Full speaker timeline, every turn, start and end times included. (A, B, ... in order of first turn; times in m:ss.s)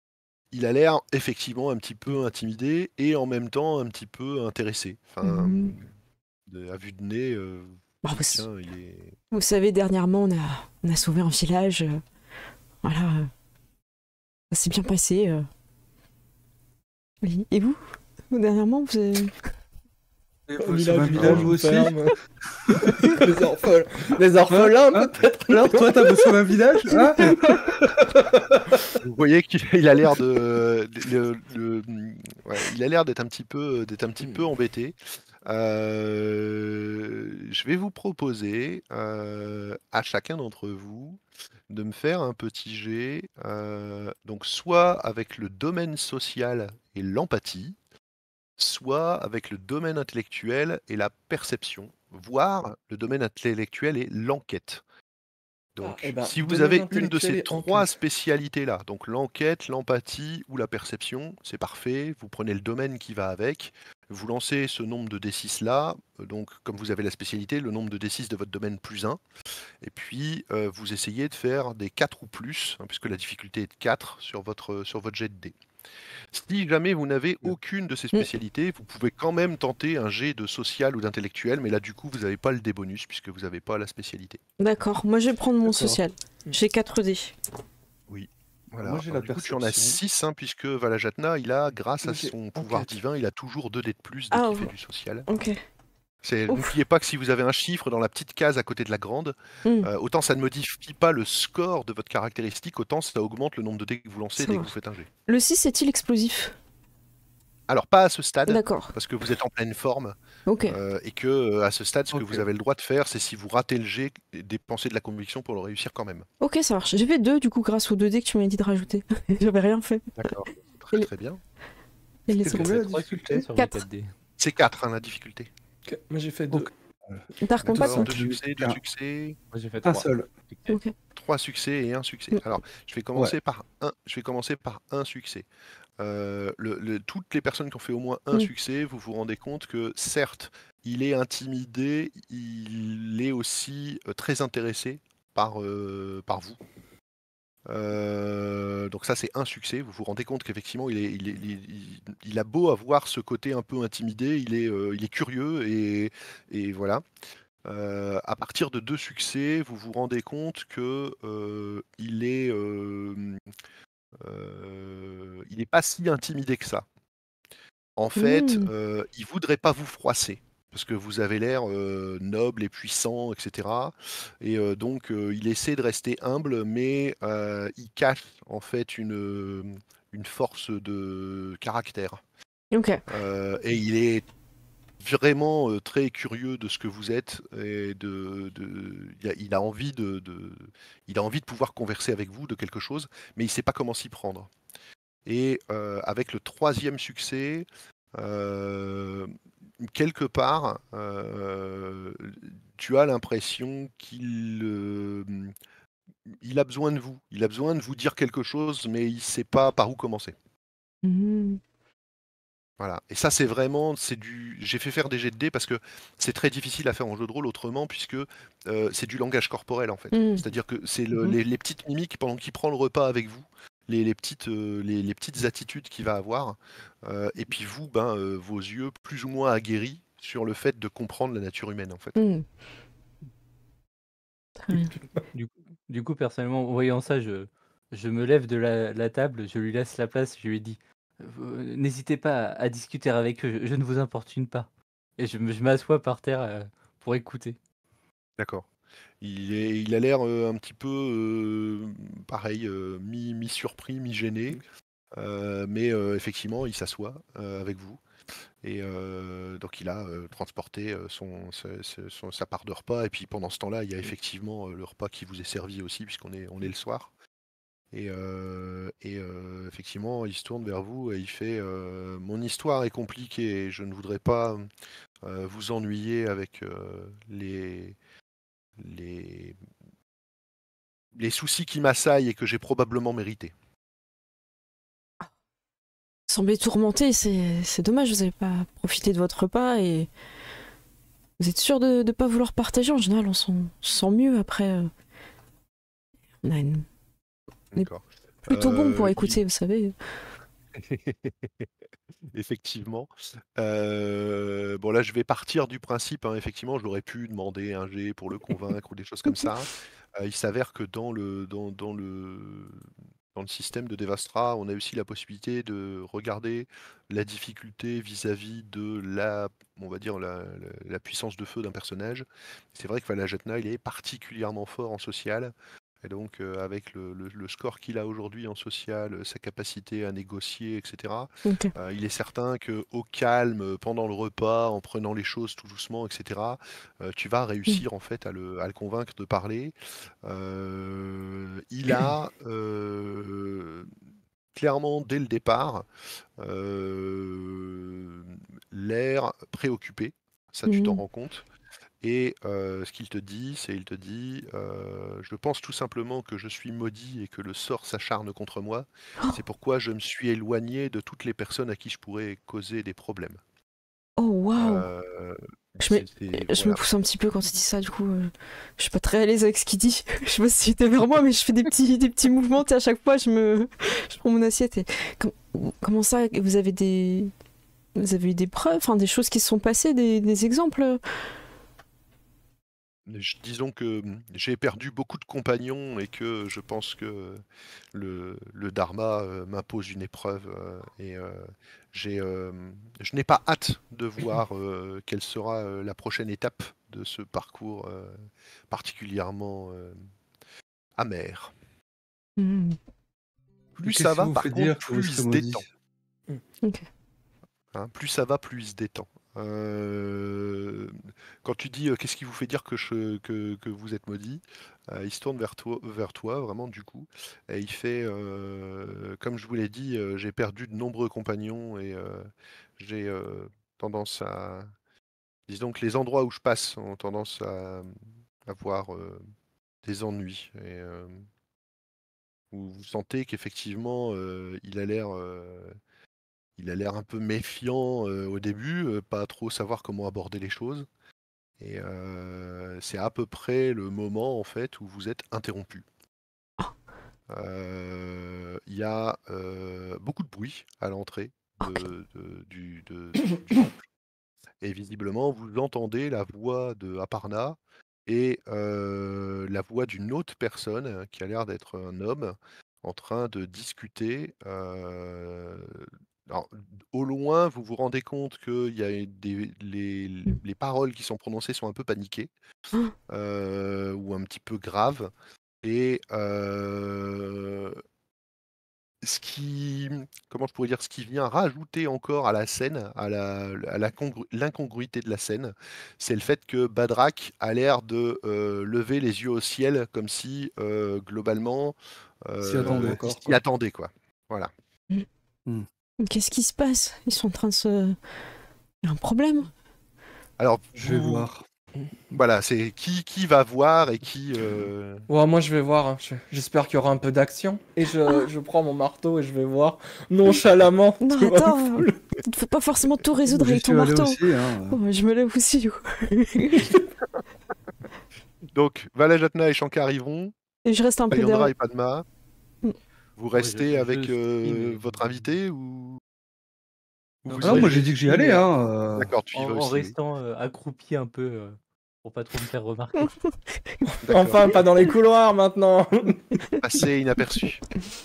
0:00.5-0:05.9 A
0:05.2-0:05.8 B
0:06.5-0:09.2 A
0:08.0-0:08.5 B
0:09.3-0:12.0 B
0:12.8-0:13.3 B
0:14.5-0:15.5 B
0:17.2-0:19.5 B
0:20.5-0:21.9 C
0:20.6-0:22.2 D
0:21.2-0:21.5 A
0:22.6-0:23.2 C
0:23.1-0:26.3 D
0:24.5-0:28.8 C
0:26.9-0:27.7 B
0:29.0-0:47.8 A
0:48.6-0:54.8 A
0:55.8-1:09.2 A
0:55.8-0:57.9 D
1:09.8-1:15.6 A
1:16.3-1:24.4 A
1:24.6-1:27.4 B
1:25.7-1:26.0 C
1:28.1-1:35.3 A
1:28.8-1:30.0 C
1:32.0-1:32.9 D
1:34.3-1:34.7 B
1:35.3-1:35.6 B
1:36.2-1:45.1 A
1:39.6-1:39.9 B
1:44.4-1:44.7 B
1:45.3-1:46.6 B
1:47.7-1:56.3 A
1:48.5-1:49.0 B
1:50.5-1:50.8 B
1:52.1-1:52.4 C
1:56.4-2:00.4 B
2:00.2-2:01.4 A
2:02.3-2:02.8 B
2:02.3-2:03.5 C
2:02.4-2:04.1 E
2:03.6-2:03.8 B
2:04.4-2:05.5 A
2:05.8-2:06.7 D
2:06.5-2:08.8 C
2:07.4-2:08.1 B
2:07.7-2:09.4 A
2:07.8-2:08.0 D
2:09.5-2:10.8 E
2:09.8-2:10.3 C
2:10.7-2:11.0 B
2:11.2-2:15.5 A
2:16.0-2:26.6 A
2:27.7-2:37.0 A
2:37.6-2:43.4 A
2:44.2-2:46.9 A
2:48.0-3:02.2 A
2:48.2-2:48.7 B
3:02.7-3:03.0 B
3:03.1-3:04.3 A
3:05.0-3:14.5 A
3:15.3-3:25.5 A
3:26.3-3:30.4 A
3:31.0-3:31.6 B
3:32.8-3:52.2 A
3:40.1-3:40.4 B
3:52.2-3:52.4 B
3:54.6-3:54.9 B
3:54.7-3:55.2 D
3:55.3-4:07.6 E
4:08.4-4:08.7 A
4:09.2-4:14.6 A
4:15.2-4:18.0 A
4:18.6-4:27.1 A
4:27.9-4:34.7 A
4:35.2-4:38.0 A
4:38.8-4:39.6 A
4:41.2-4:43.5 A
4:46.3-4:50.1 B
4:51.4-4:54.9 B
4:56.4-4:56.9 B
4:57.7-4:59.4 A
4:58.5-5:00.0 B
5:00.8-5:01.7 A
5:02.3-5:43.9 A
5:31.4-5:31.7 B
5:44.5-5:45.9 A
5:46.4-5:51.5 A
5:50.7-5:51.0 B
5:52.0-6:03.4 A
6:04.2-6:04.9 B
6:04.6-6:06.8 A
6:05.8-6:17.3 B
6:18.0-6:21.0 B
6:23.1-6:40.0 A
6:41.0-6:41.5 A
6:42.4-6:42.8 B
6:43.8-6:45.6 A
6:43.8-6:45.6 C
6:47.7-7:04.7 A
7:05.5-7:07.9 A
7:08.4-7:09.2 A
7:09.8-7:11.2 A
7:12.5-7:15.8 A
7:16.6-7:20.9 A
7:21.6-7:25.8 A
7:27.3-7:33.8 A
7:34.6-7:52.3 A
7:53.1-7:55.1 A
7:55.6-7:57.8 A
7:59.0-8:14.5 A
8:12.4-8:13.4 C
8:16.0-8:18.0 B
8:18.8-8:19.5 B
8:20.4-8:21.3 A
8:20.8-8:21.4 C
8:22.1-8:25.1 A
8:25.1-8:32.0 D
8:31.0-8:36.8 B
8:33.3-8:34.8 C
8:38.5-8:40.3 A
8:40.6-8:41.5 B
8:41.1-8:42.0 A
8:43.2-8:46.0 A
8:43.4-8:45.3 E
8:47.2-8:48.0 A
8:47.3-8:47.9 E
8:47.4-8:49.1 C
8:49.0-8:50.0 A
8:49.3-8:53.2 E
8:53.0-8:53.8 B
8:53.8-8:56.4 D
8:54.0-8:54.5 A
8:56.6-8:57.6 A